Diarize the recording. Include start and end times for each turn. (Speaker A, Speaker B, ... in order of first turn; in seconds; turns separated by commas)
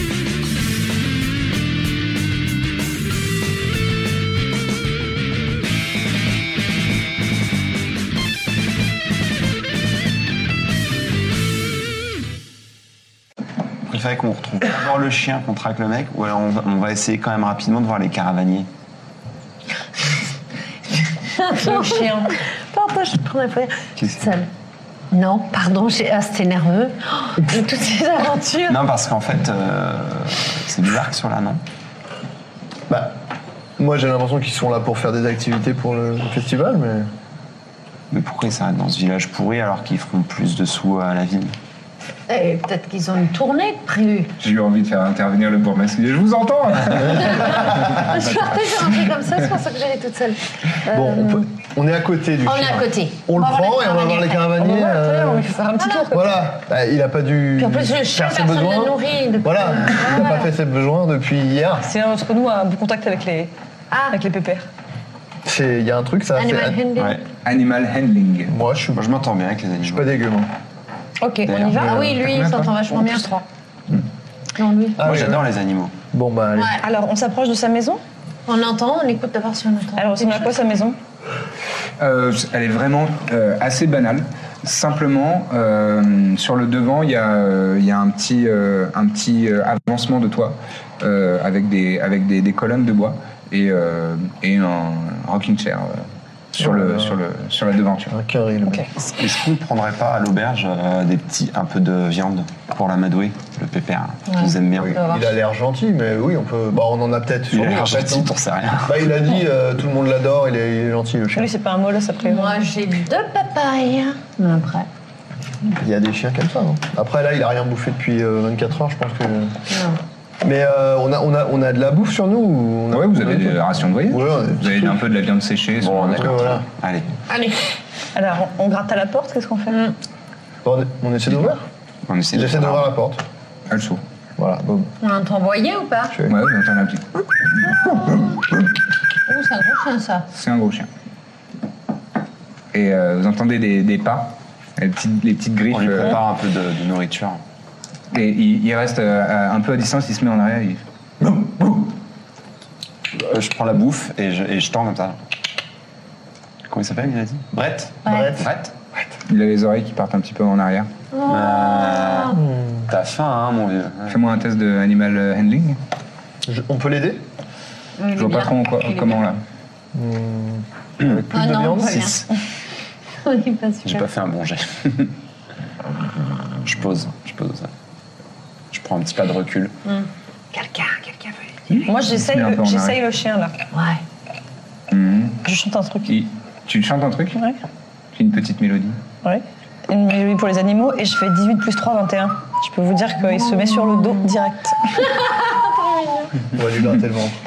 Speaker A: 13.9-18.7, Speaker B: 21.2-24.5, Speaker C: 21.5-22.4, Speaker A: 24.0-24.2, Speaker B: 25.1-28.8, Speaker A: 28.6-31.6, Speaker D: 32.9-33.2, Speaker D: 33.8-37.1, Speaker A: 38.1-41.5, Speaker B: 42.3-44.3, Speaker E: 44.4-49.0, Speaker B: 47.4-51.5, Speaker D: 50.9-55.5, Speaker B: 52.5-54.6, Speaker C: 54.6-56.4, Speaker B: 55.8-56.1, Speaker D: 56.1-61.9, Speaker B: 57.6-60.5, Speaker C: 61.8-63.5, Speaker B: 63.9-64.2, Speaker C: 64.1-64.7, Speaker D: 65.5-66.8, Speaker B: 66.4-67.2, Speaker A: 67.0-67.2, Speaker E: 67.4-68.5, Speaker D: 68.5-69.1, Speaker A: 68.9-70.1, Speaker D: 69.9-70.5, Speaker C: 71.2-72.1, Speaker A: 71.5-71.9, Speaker D: 71.7-72.2, Speaker B: 71.8-73.4, Speaker E: 72.2-72.8, Speaker B: 74.6-75.2, Speaker A: 75.0-76.0, Speaker D: 75.0-75.5, Speaker D: 76.1-76.8, Speaker C: 76.8-78.0, Speaker B: 78.5-80.6, Speaker C: 80.0-81.0, Speaker E: 82.0-98.1, Speaker D: 96.6-97.2, Speaker D: 98.1-98.9, Speaker C: 98.7-98.9, Speaker A: 99.1-105.0, Speaker B: 104.3-105.3, Speaker D: 104.8-108.3, Speaker A: 107.5-109.2, Speaker D: 108.8-111.5, Speaker C: 111.3-112.6, Speaker B: 112.2-114.9, Speaker D: 115.6-119.6, Speaker B: 119.7-120.0, Speaker D: 120.4-125.0, Speaker E: 122.9-126.6, Speaker A: 125.8-127.1, Speaker D: 126.2-126.7, Speaker B: 127.3-127.7, Speaker C: 128.1-129.8, Speaker D: 130.6-131.6, Speaker A: 132.1-132.9, Speaker D: 132.3-133.2, Speaker E: 133.7-134.0, Speaker D: 134.4-134.9, Speaker B: 135.0-136.2, Speaker E: 136.3-137.8, Speaker B: 139.3-140.3, Speaker E: 140.3-140.9, Speaker E: 142.7-146.2, Speaker A: 145.7-147.4, Speaker E: 148.1-150.8, Speaker A: 153.2-155.2, Speaker A: 156.7-158.7, Speaker B: 158.1-158.4, Speaker D: 158.1-158.4, Speaker E: 159.2-160.9, Speaker B: 161.1-162.4, Speaker A: 161.2-164.2, Speaker D: 162.3-162.9, Speaker E: 164.1-165.8, Speaker D: 166.5-167.2, Speaker B: 168.0-169.2, Speaker E: 168.1-169.4, Speaker D: 169.9-172.2, Speaker B: 171.3-172.3, Speaker B: 173.2-174.1, Speaker A: 173.8-175.2, Speaker A: 176.6-177.7, Speaker A: 178.7-179.7, Speaker B: 179.9-181.3, Speaker E: 181.7-183.0, Speaker C: 181.9-183.5, Speaker B: 183.7-184.0, Speaker E: 184.9-185.4, Speaker C: 185.4-186.1, Speaker E: 186.1-187.4, Speaker E: 188.2-189.0, Speaker C: 189.2-195.0, Speaker B: 195.1-196.3, Speaker D: 196.5-197.4